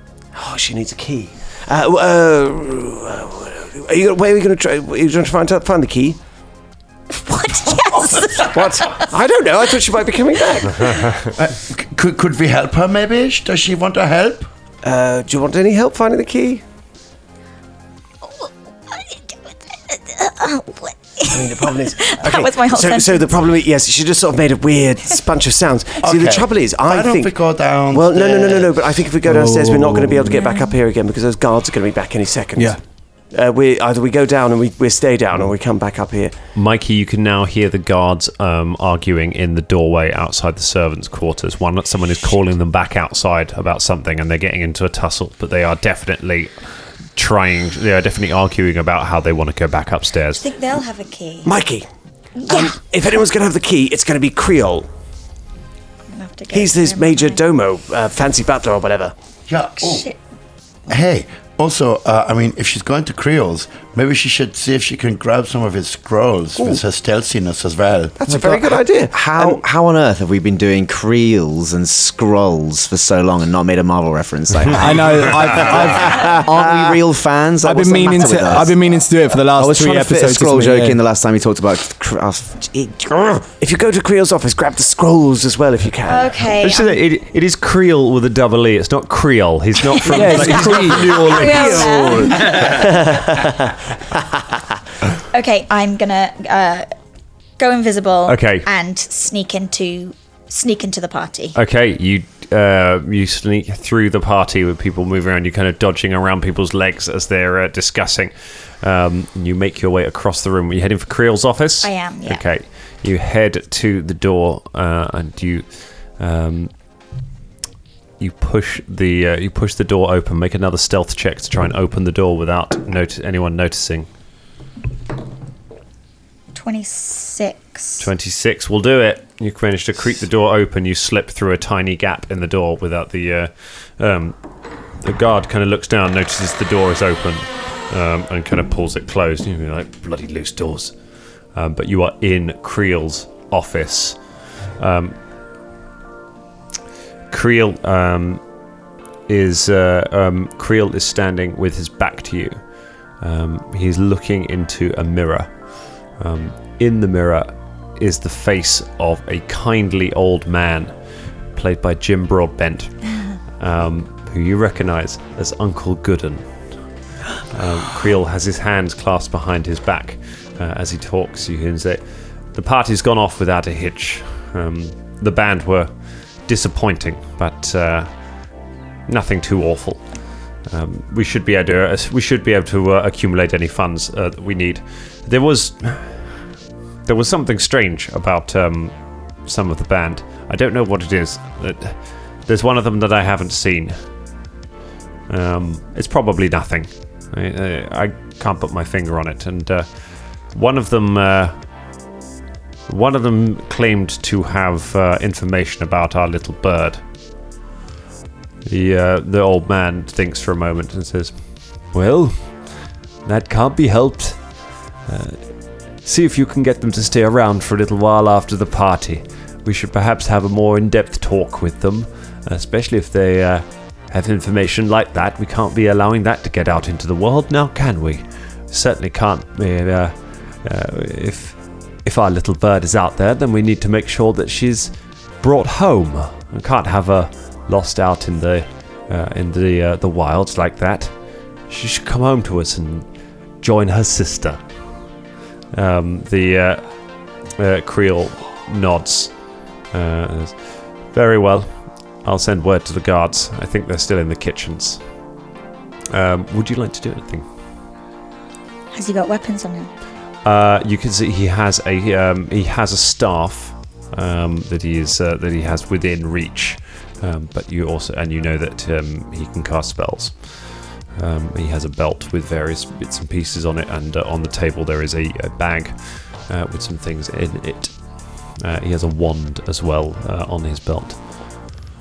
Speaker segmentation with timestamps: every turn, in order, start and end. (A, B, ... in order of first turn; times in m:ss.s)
0:00.3-0:06.2 A
0:07.1-0:09.1 B
0:08.4-0:11.2 A
0:11.4-0:14.5 C
0:14.8-0:16.6 A
0:18.4-0:19.2 B
0:19.7-0:23.4 B
0:21.3-0:32.8 A
0:26.0-0:28.9 C
0:29.2-0:30.4 D
0:30.3-0:30.8 B
0:33.3-0:36.3 A
0:36.6-0:46.5 E
0:47.2-0:50.4 E
0:50.4-0:51.5 B
0:51.4-0:51.9 A
0:52.4-0:52.8 B
0:52.5-0:54.9 A
0:56.1-0:57.4 B
0:56.5-0:59.1 A
0:59.5-1:00.1 C
0:59.8-1:00.2 B
1:00.9-1:08.2 C
1:06.6-1:06.8 A
1:08.2-1:09.6 A
1:08.3-1:18.8 F
1:14.7-1:16.6 D
1:17.6-1:21.0 D
1:19.6-1:23.5 F
1:23.6-1:26.5 A
1:26.1-1:27.0 B
1:26.6-1:31.9 E
1:30.1-1:32.5 D
1:30.5-1:31.4 A
1:31.2-1:32.7 B
1:32.0-1:34.4 A
1:35.3-1:36.9 B
1:37.6-1:41.6 B
1:38.3-1:38.7 E
1:41.6-1:55.6 E
1:51.8-1:52.4 B
1:56.2-1:56.7 E
1:58.2-2:04.1 E
2:06.5-2:08.1 B
2:08.0-2:14.4 E
2:15.0-2:21.0 E
2:21.5-2:24.2 E
2:24.8-2:25.2 E
2:27.3-2:28.4 E
2:29.3-2:32.6 E
2:33.2-2:40.9 E
2:41.6-2:46.5 E
2:47.5-2:52.0 E
2:52.5-2:55.9 E
2:56.5-2:58.1 E
2:59.1-3:00.1 E
3:00.7-3:06.3 E
3:07.1-3:14.0 E
3:15.3-3:19.9 E
3:20.5-3:21.6 E
3:22.9-3:27.0 E
3:28.7-3:32.5 E
3:33.2-3:34.4 E
3:35.1-3:35.4 E
3:36.0-4:01.1 E
4:01.7-4:03.1 E
4:03.6-4:04.6 E
4:05.7-4:06.9 E
4:07.6-4:09.3 E
4:09.9-4:10.6 E
4:11.1-4:11.7 E
4:12.2-4:15.0 E
4:16.1-4:17.5 E
4:18.9-4:19.9 B
4:20.4-4:30.6 E
4:31.2-4:37.9 E
4:38.6-4:41.2 E